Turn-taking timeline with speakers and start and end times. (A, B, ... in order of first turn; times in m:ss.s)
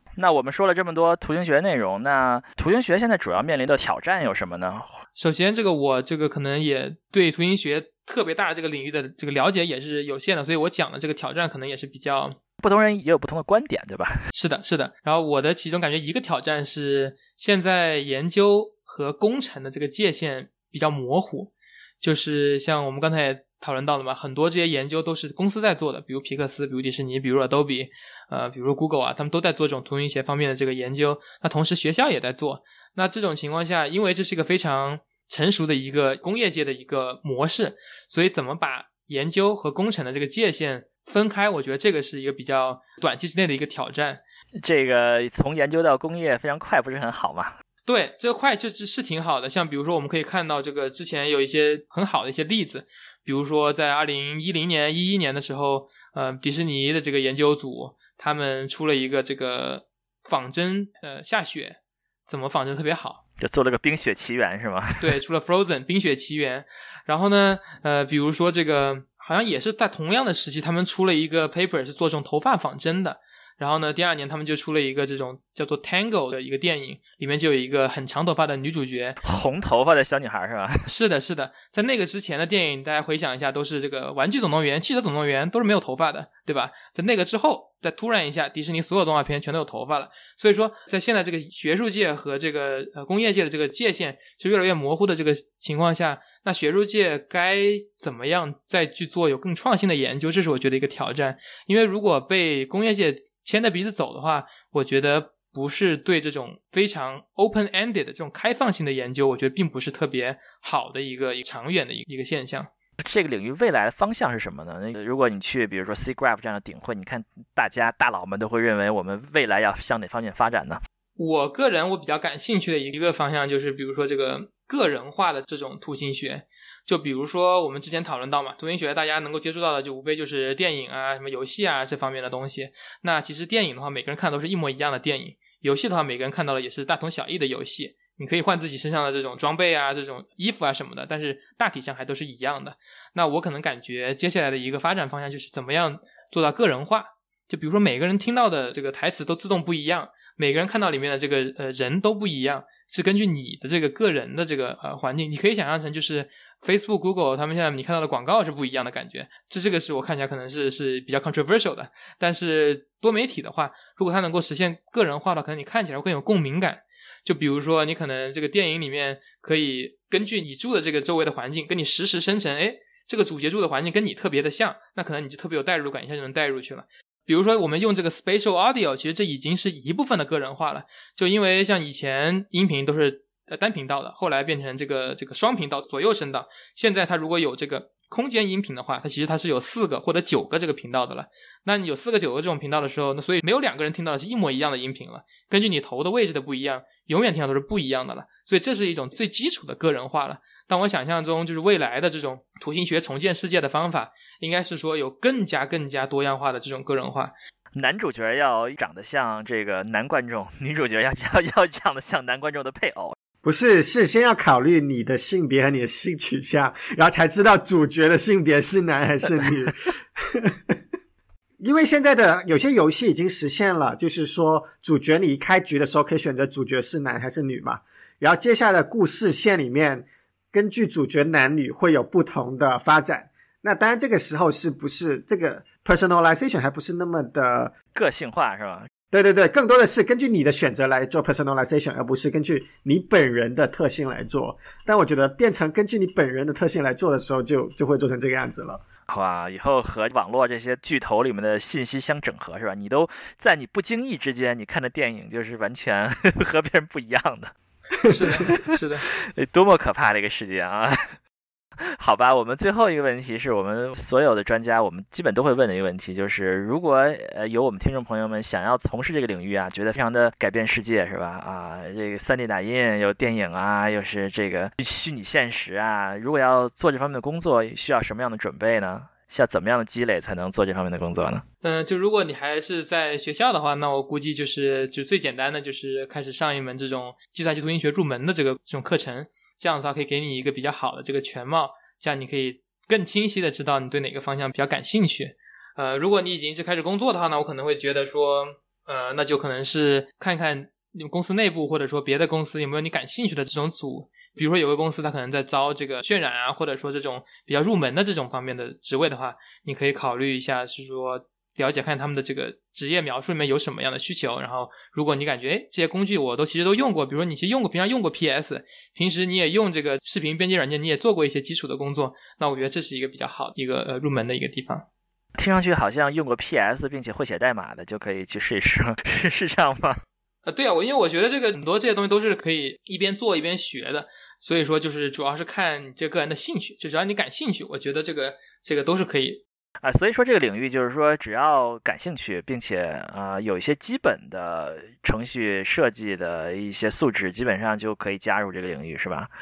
0:00.2-0:04.9 A
0:05.2-0:12.3 B
0:12.6-0:14.3 A
0:14.3-0:44.2 B
0:44.6-0:47.5 A
0:47.9-1:03.2 B
1:03.4-1:05.1 A
1:05.0-1:19.2 B
1:19.2-1:20.9 A
1:20.8-1:52.7 B
1:53.0-2:00.8 A
2:01.2-3:27.3 B
3:27.7-3:33.1 A
3:33.4-3:40.5 C
3:41.6-3:57.7 C
3:57.9-3:58.9 A
3:59.1-4:08.8 C
4:09.1-4:17.5 A
4:18.0-4:19.1 B
4:18.4-4:21.2 A
4:22.0-4:41.4 A
4:41.6-5:24.8 B
5:25.4-5:30.0 A
5:30.4-5:39.4 B
5:39.8-5:49.3 A